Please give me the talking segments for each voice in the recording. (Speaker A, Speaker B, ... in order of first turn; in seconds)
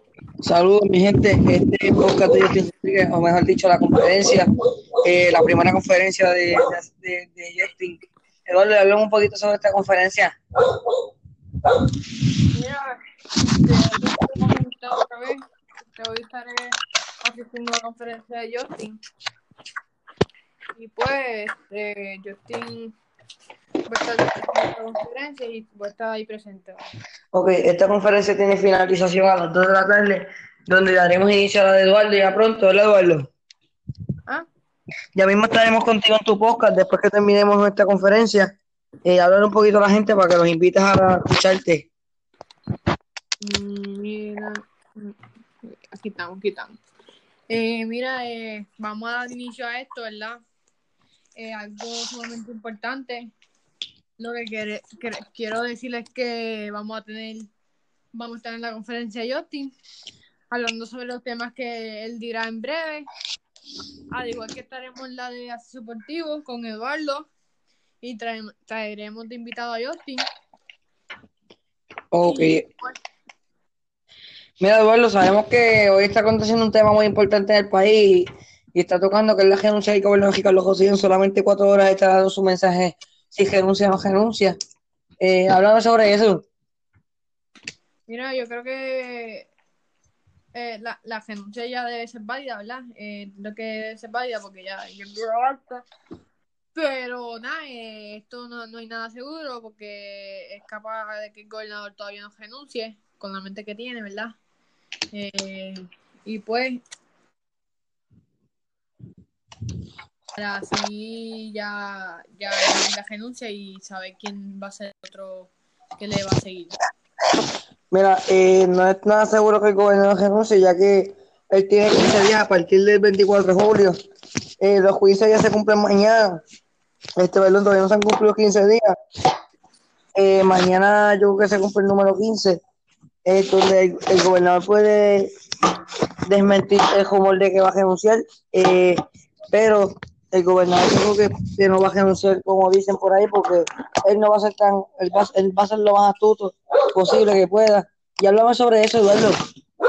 Speaker A: 0.5-4.5, 5.0-10.3, 27.3-33.3, 35.1-38.5, 39.0-41.9, 72.1-72.7, 74.6-84.5, 85.2-86.5, 117.9-124.0, 124.6-126.4, 127.2-128.9, 130.2-132.6, 133.2-135.3, 136.3-139.0, 139.5-149.3
Speaker B: 12.5-15.4, 15.9-19.0, 20.7-22.9, 23.9-26.8, 43.4-46.8, 47.5-50.4, 51.4-53.3, 54.2-57.5, 58.1-59.7, 60.5-63.1, 64.1-67.2, 68.0-70.2, 72.2-72.9, 88.1-89.5, 90.5-95.8, 96.7-104.3, 105.1-106.8, 110.3-116.7